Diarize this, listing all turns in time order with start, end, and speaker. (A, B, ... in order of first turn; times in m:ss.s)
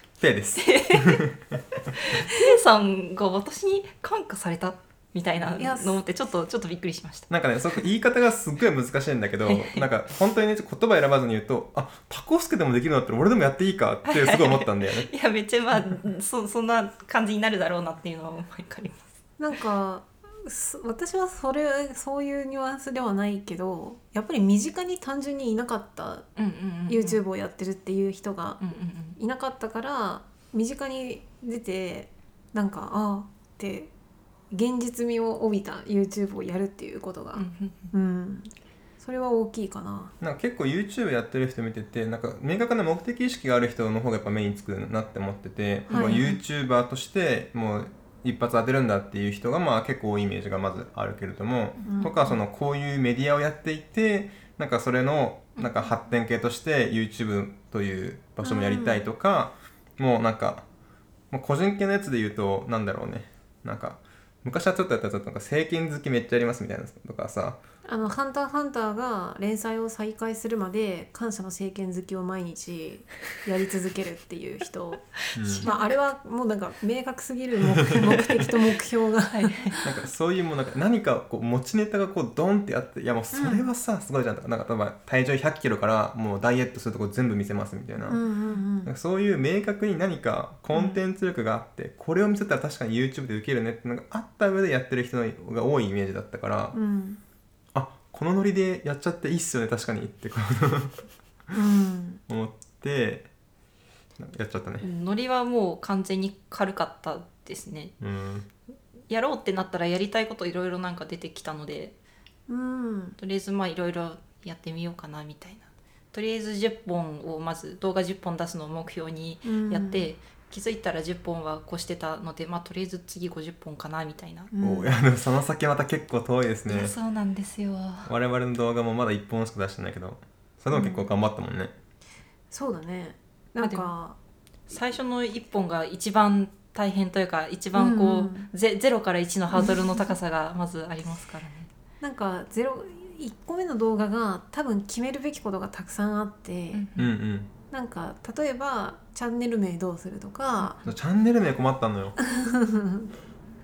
0:00.2-0:01.6 A
0:00.5-0:01.2 B
0:01.9-0:07.8 B
0:05.6-0:06.0 C
0:07.3-0:15.1 A
0:09.4-0:09.8 B
0:14.0-0:19.0 B
0:19.4-0:26.3 C
0:26.4-0:27.2 B
0:26.9-0:28.6 C
0:28.6-0:29.2 B
0:29.2-0:33.9 C
0:34.5-0:40.1 C
0:37.3-0:37.9 B
0:40.2-1:00.6 A
0:45.9-0:46.4 C
0:45.9-0:46.4 B
0:51.8-0:52.4 C
0:55.6-0:55.9 B
0:58.4-0:59.0 C
1:01.3-1:07.6 A
1:07.8-1:19.8 C
1:15.3-1:15.7 A
1:15.3-1:15.8 B
1:19.3-1:19.7 B
1:19.8-1:28.2 A
1:23.3-1:23.6 C
1:28.0-1:28.9 C
1:28.8-1:36.7 A
1:36.7-1:37.2 C
1:37.7-1:41.0 A
1:41.5-1:42.2 C
1:42.3-1:43.3 A
1:44.2-1:44.8 A
1:44.8-1:47.9 B
1:48.0-1:48.5 A
1:49.1-1:51.9 B
1:52.5-1:53.2 C
1:53.2-2:04.5 B
1:59.4-2:00.1 C
2:04.5-2:04.9 C
2:04.6-2:06.9 A
2:06.7-2:08.1 B
2:08.0-2:11.7 A
2:10.7-2:11.1 C
2:12.5-2:14.2 C
2:13.6-2:13.9 B
2:14.7-2:21.7 B
2:17.7-2:18.5 C
2:22.0-2:26.8 C
2:26.7-2:27.1 B
2:27.0-2:27.5 A
2:27.7-2:30.8 C
2:30.6-2:30.9 B
2:30.8-2:32.2 A
2:32.2-2:33.1 C